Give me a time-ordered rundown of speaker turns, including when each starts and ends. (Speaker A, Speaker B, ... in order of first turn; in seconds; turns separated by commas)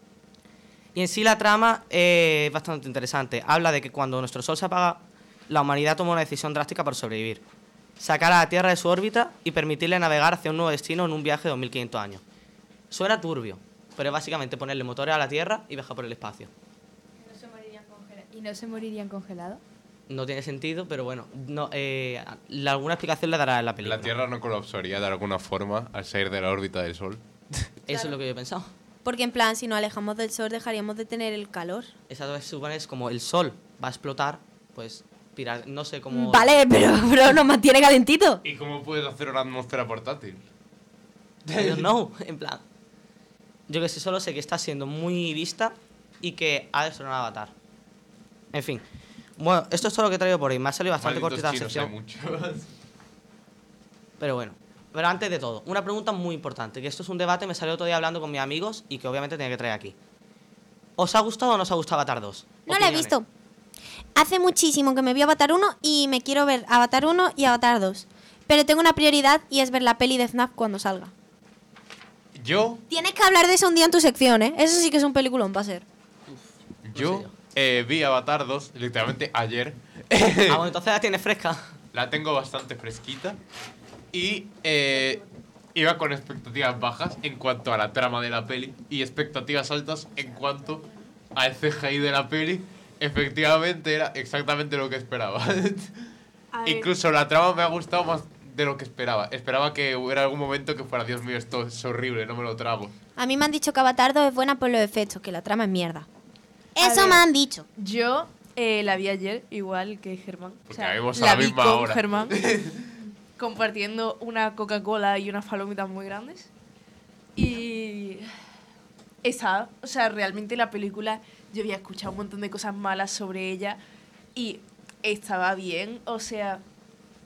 Speaker A: 0.9-7.4, Speaker A: 8.0-12.2, Speaker A: 12.9-16.5, Speaker B: 17.2-19.6, Speaker A: 20.1-24.1, Speaker C: 23.8-27.2, Speaker A: 27.8-28.7, Speaker D: 29.0-31.9, Speaker A: 32.1-36.5, Speaker D: 36.1-38.4, Speaker C: 38.4-40.4, Speaker C: 41.5-41.9, Speaker A: 41.5-42.6, Speaker A: 43.7-47.5, Speaker A: 48.5-48.8, Speaker A: 49.4-51.9, Speaker C: 51.0-52.7, Speaker A: 54.2-60.0, Speaker A: 61.0-63.1, Speaker D: 62.6-63.3, Speaker D: 64.2-71.1, Speaker C: 72.3-72.8, Speaker D: 72.9-75.8, Speaker C: 76.9-80.6, Speaker A: 76.9-77.3, Speaker A: 80.5-81.6, Speaker C: 81.9-83.4, Speaker C: 84.1-85.2, Speaker C: 85.7-95.9, Speaker E: 96.5-96.9, Speaker C: 96.6-102.9, Speaker D: 103.2-106.1, Speaker D: 106.8-107.7, Speaker E: 106.8-107.2, Speaker E: 107.8-112.3, Speaker C: 110.7-112.7, Speaker E: 113.4-116.5, Speaker E: 117.3-118.3, Speaker E: 119.2-123.8, Speaker E: 124.3-126.6